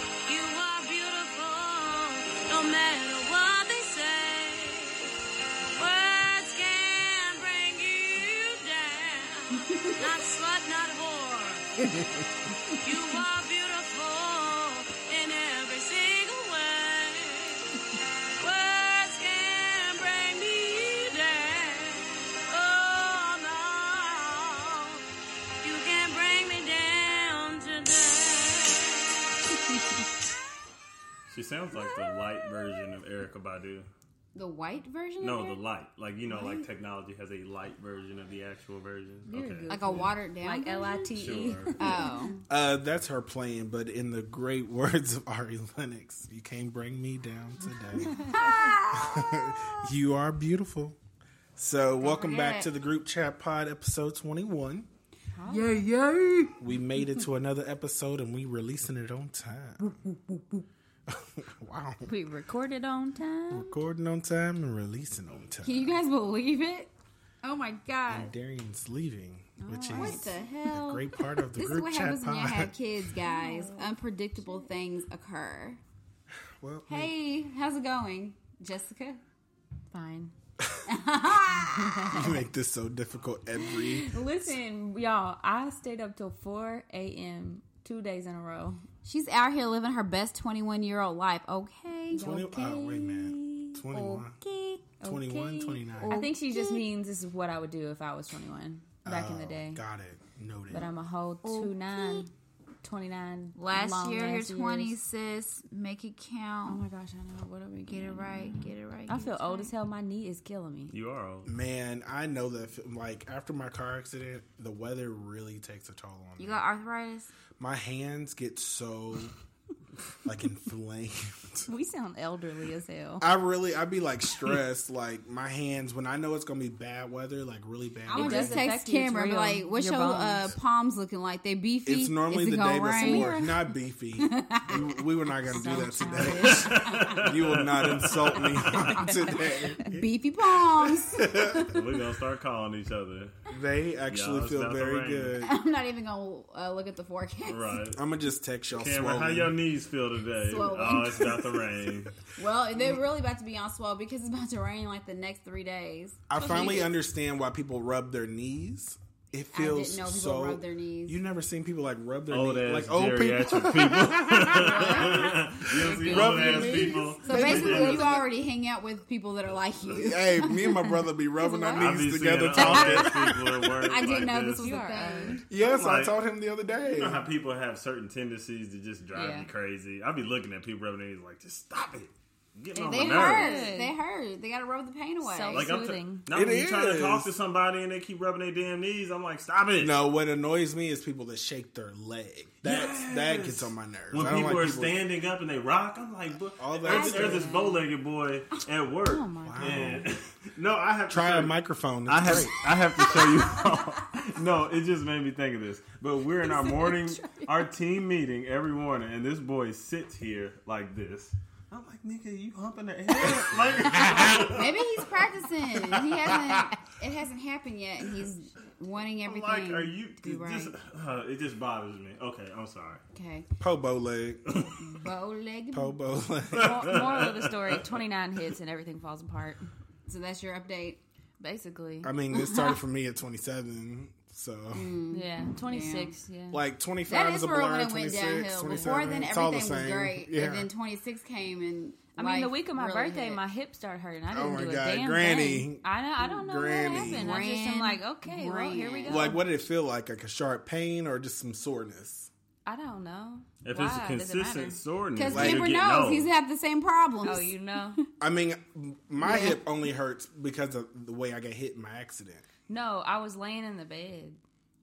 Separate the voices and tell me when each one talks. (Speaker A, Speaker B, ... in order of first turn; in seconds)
Speaker A: 0.3-4.9, 5.8-11.6, 12.8-17.6, 18.4-24.5, 25.6-29.1
Speaker B: 31.3-33.9, 35.2-40.1, 41.1-42.1, 110.9-111.5, 136.4-138.9, 141.7-143.4, 144.1-145.3, 147.5-148.0, 148.7-152.2, 162.3-168.2, 169.8-170.1, 171.8-174.8, 175.4-176.2, 176.9-183.7, 185.5-190.0, 192.6-201.5, 202.1-215.0, 215.8-216.3, 219.2-223.0, 226.6-227.9, 253.6-256.3
Speaker C: 31.8-32.8, 34.4-35.6, 36.3-36.7, 39.7-41.1, 41.8-42.4, 48.3-49.8, 52.0-52.7, 55.5-56.6, 60.1-60.6, 65.6-66.9, 67.4-68.3, 69.9-75.8, 76.9-79.2, 80.9-82.3, 89.0-94.8, 96.0-96.8, 101.4-102.3, 103.6-106.8, 107.9-109.7, 116.4-117.3, 128.1-133.4, 134.2-134.8, 135.5-137.2, 138.6-141.8, 145.4-147.8, 150.4-151.6, 152.4-156.8, 159.5-161.2, 164.5-165.3, 166.1-171.9, 172.6-175.4, 182.9-185.7, 196.9-197.8, 203.2-203.7, 214.3-220.8, 223.1-223.5, 224.8-226.0, 230.1-231.0, 232.3-232.8, 234.7-236.1, 237.1-243.4, 246.7-249.4, 255.2-257.5, 259.2-259.6
Speaker D: 39.3-42.4, 48.0-48.6, 55.4-55.8, 62.1-63.7, 69.6-70.3, 73.2-74.7, 79.9-80.3, 81.7-82.4, 84.1-88.8, 92.1-93.2, 95.0-99.8, 100.7-102.3, 102.8-105.0, 106.7-108.5, 109.1-110.9, 121.7-123.2, 128.1-130.4, 133.0-133.5, 135.5-136.6, 156.4-156.9, 164.9-167.8, 174.6-175.4, 179.1-179.5, 182.8-183.9, 185.2-186.3, 199.1-199.9, 206.4-207.5, 226.6-229.7, 231.4-232.1, 235.1-236.6, 242.2-249.4, 252.7-254.8, 257.2-258.0, 262.7-264.4
Speaker E: 42.5-48.2, 48.9-51.0, 51.6-54.9, 56.6-60.0, 61.1-62.1, 63.5-66.0, 68.1-72.7, 76.6-77.1, 80.6-80.9, 82.1-84.5, 92.1-94.4, 95.0-96.2, 99.0-100.9, 111.5-116.6, 117.6-119.3, 120.2-121.7, 123.2-128.7, 131.9-140.1, 140.9-141.8, 143.5-145.6, 147.9-149.6, 156.3-168.3, 169.9-174.1, 175.5-177.2, 186.3-187.3, 189.8-195.0, 196.6-197.5, 199.4-200.1, 201.1-202.7, 213.4-214.5, 223.6-224.6, 225.7-227.1, 232.0-234.9, 236.5-240.7, 244.3-247.4, 249.1-252.3, 255.3-255.8, 258.2-262.5